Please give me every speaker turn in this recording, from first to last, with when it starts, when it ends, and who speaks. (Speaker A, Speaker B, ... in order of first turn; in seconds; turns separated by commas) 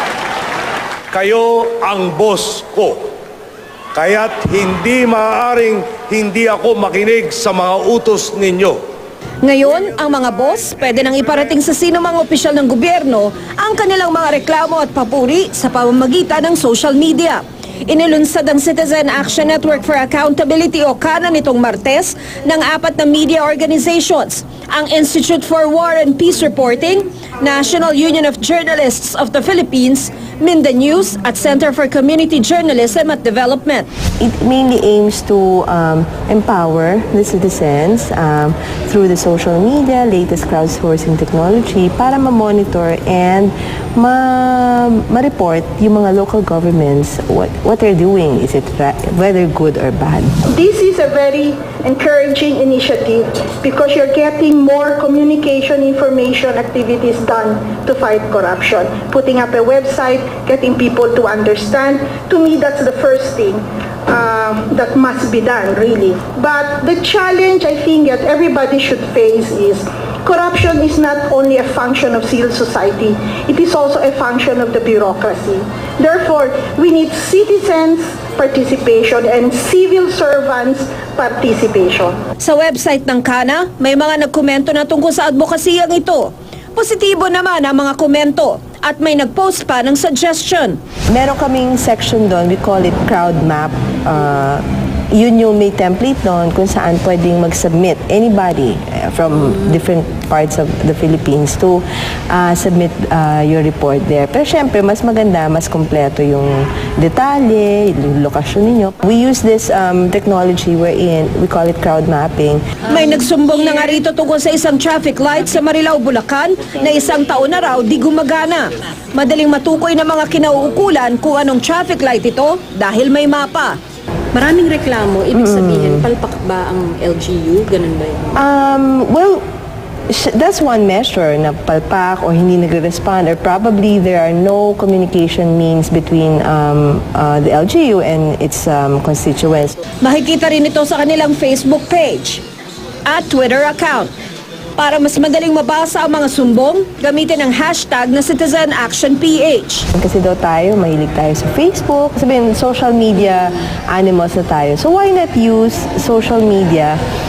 Speaker A: 1.1-3.1, Speaker A: 4.0-8.8, Speaker B: 9.4-33.9, Speaker C: 34.2-50.4, Speaker D: 50.5-82.2, Speaker B: 82.4-90.8, Speaker C: 91.1-112.7, Speaker B: 112.9-123.8, Speaker E: 124.3-128.3, Speaker C: 125.3-126.0, Speaker C: 128.3-129.4, Speaker C: 130.1-139.8, Speaker B: 140.0-142.4, Speaker B: 143.1-144.1, Speaker B: 144.8-149.9, Speaker C: 149.9-157.0